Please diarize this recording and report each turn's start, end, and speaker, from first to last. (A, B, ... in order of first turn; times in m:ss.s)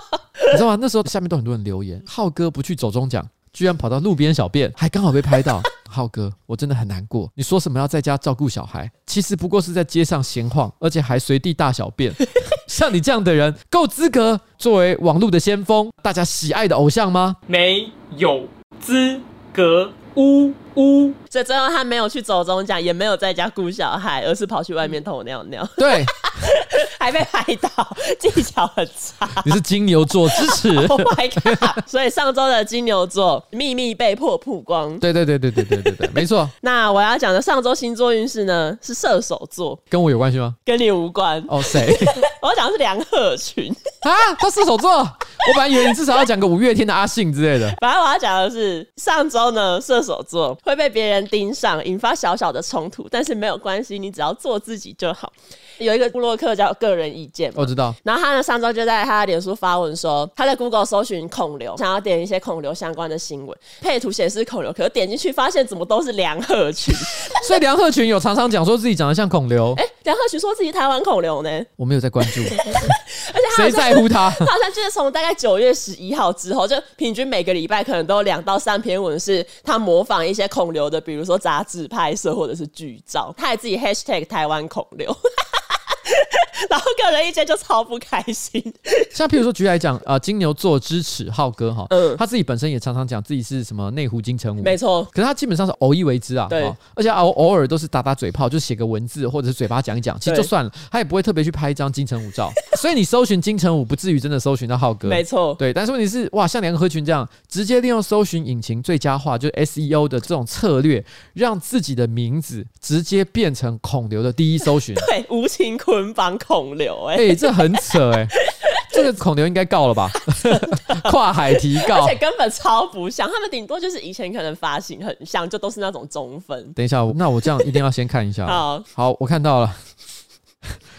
0:00.5-0:17.4 A
0:17.5-0:21.2 B
0:21.3-0:29.6 C
0:25.8-0:26.5 A
0:29.4-0:31.8 A
0:30.2-0:35.0 C
0:35.0-0:36.5 A
0:35.6-0:39.8 C
0:39.9-0:40.6 A
0:40.6-0:43.8 C
0:41.5-0:42.2 A
0:44.0-0:47.8 A
0:47.7-1:07.5 C
0:57.6-0:58.0 A
1:07.2-1:09.8 A
1:09.7-1:11.7 C
1:11.8-1:14.5 A
1:12.2-1:29.1 C
1:29.1-1:55.1 A
1:31.9-1:32.2 C
1:34.6-1:35.1 C
1:36.5-1:36.8 C
1:40.2-1:40.5 C
1:45.0-1:45.6 C
1:54.9-1:59.0 C
1:57.1-1:58.3 A
1:58.8-2:02.2 A
2:00.2-2:06.8 C
2:06.8-2:09.8 A
2:08.4-2:08.8 C